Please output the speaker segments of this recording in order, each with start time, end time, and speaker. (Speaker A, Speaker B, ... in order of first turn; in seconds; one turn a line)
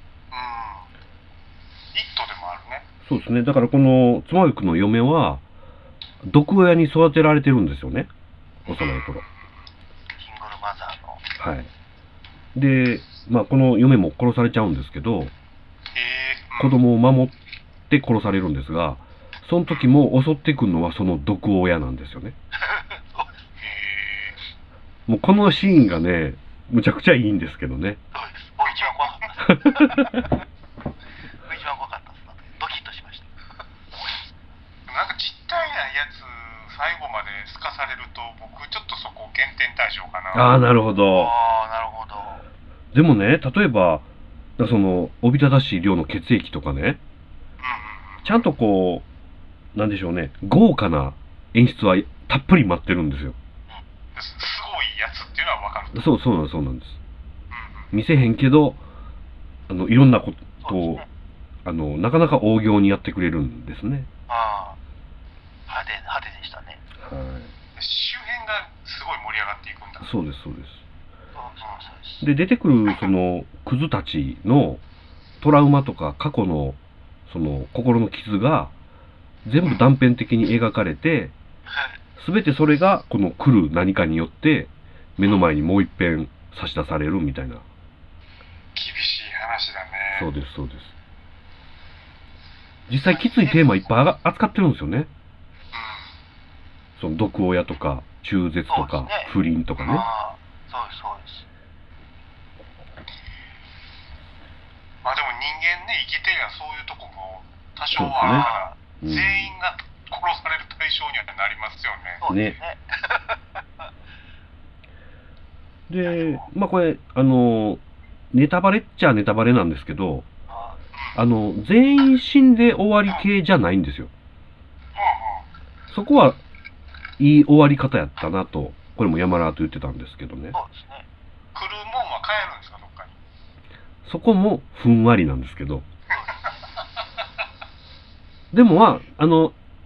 Speaker A: 0.3-0.9
Speaker A: 1.9-2.8
Speaker B: 3.0-5.4
Speaker B: 6.2-8.1
Speaker B: 8.7-9.2
Speaker A: 8.7-9.5
Speaker C: 10.2-11.2
Speaker B: 11.4-11.7
Speaker B: 12.5-15.3
Speaker A: 15.9-16.8
Speaker B: 16.6-17.3
Speaker B: 17.9-22.3
Speaker C: 22.6-23.6
Speaker A: 23.6-24.4
Speaker B: 25.1-28.0
Speaker C: 28.1-30.4
Speaker A: 28.6-29.3
Speaker B: 29.4-30.3
Speaker C: 31.4-33.3
Speaker A: 34.9-40.5
Speaker B: 40.3-41.3
Speaker C: 41.1-42.4
Speaker B: 42.9-44.0
Speaker B: 44.6-47.0
Speaker A: 47.6-48.4
Speaker B: 48.2-49.0
Speaker B: 49.7-53.4
Speaker A: 54.1-56.1
Speaker B: 55.9-57.0
Speaker A: 57.5-57.9
Speaker B: 57.9-58.8
Speaker B: 59.7-61.0
Speaker C: 60.6-61.1
Speaker B: 61.6-64.1
Speaker C: 64.3-64.8
Speaker C: 65.7-66.8
Speaker B: 67.0-67.5
Speaker A: 67.8-70.1
Speaker B: 70.0-70.8
Speaker C: 71.3-72.2
Speaker B: 72.2-74.8
Speaker B: 75.4-78.7
Speaker B: 79.4-81.3
Speaker B: 82.2-87.6
Speaker A: 88.7-90.3
Speaker B: 90.1-90.9
Speaker B: 92.9-95.1
Speaker C: 93.1-93.6
Speaker A: 95.7-96.1
Speaker B: 97.0-100.0
Speaker C: 98.7-99.3
Speaker A: 99.8-100.0
Speaker C: 99.8-101.4
Speaker A: 105.0-112.2
Speaker B: 107.9-108.5
Speaker C: 108.2-108.8
Speaker B: 109.0-109.5
Speaker C: 112.2-113.8
Speaker B: 112.3-112.6
Speaker B: 115.9-117.8
Speaker C: 116.0-116.4
Speaker B: 118.3-120.2
Speaker C: 120.5-120.8
Speaker B: 121.1-124.1
Speaker A: 125.0-125.4
Speaker B: 125.9-126.4
Speaker B: 127.2-130.6
Speaker C: 130.5-131.1
Speaker A: 131.5-133.2
Speaker B: 134.0-135.8
Speaker C: 136.1-136.5
Speaker A: 136.2-136.5
Speaker B: 138.5-139.5